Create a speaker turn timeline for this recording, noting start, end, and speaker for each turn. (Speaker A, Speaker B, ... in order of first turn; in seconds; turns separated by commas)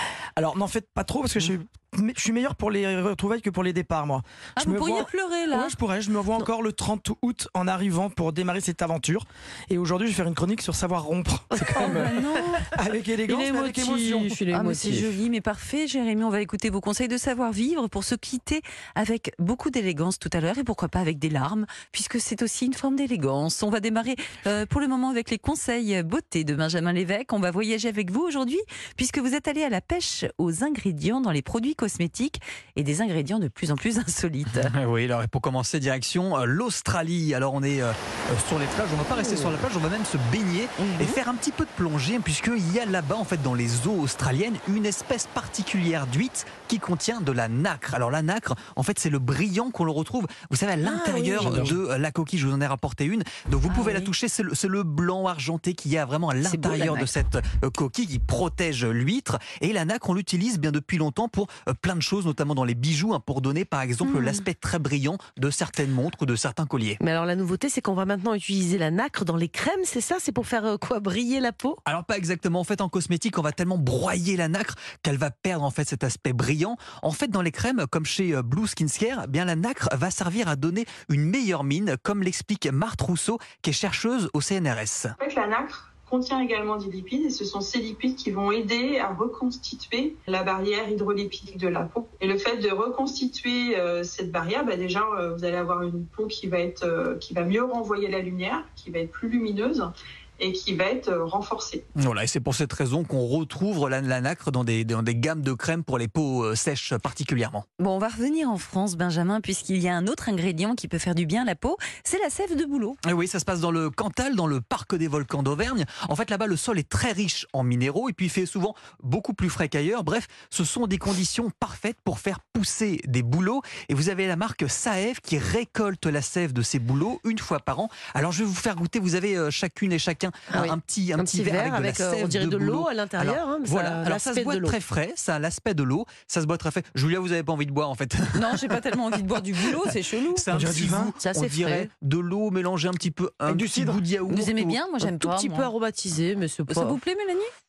Speaker A: 0.4-14.4, Speaker B: 4.6-5.8, Speaker C: 11.6-12.7, Speaker B: 11.8-12.6, Speaker C: 13.3-15.1, Speaker B: 14.5-34.7, Speaker D: 34.5-67.0, Speaker B: 40.9-41.1, Speaker C: 50.9-51.8, Speaker B: 53.7-54.1, Speaker C: 56.5-57.0, Speaker B: 64.0-64.4, Speaker C: 67.0-71.8, Speaker D: 71.9-85.1, Speaker E: 85.2-99.9, Speaker E: 100.4-101.8, Speaker D: 102.0-107.7, Speaker B: 107.8-113.0, Speaker D: 113.0-138.8, Speaker C: 130.5-134.8, Speaker B: 138.3-140.5, Speaker D: 140.3-144.8, Speaker A: 140.5-141.2, Speaker C: 141.2-141.9, Speaker A: 143.5-144.0, Speaker B: 144.3-145.7, Speaker C: 145.0-147.0, Speaker B: 146.7-147.5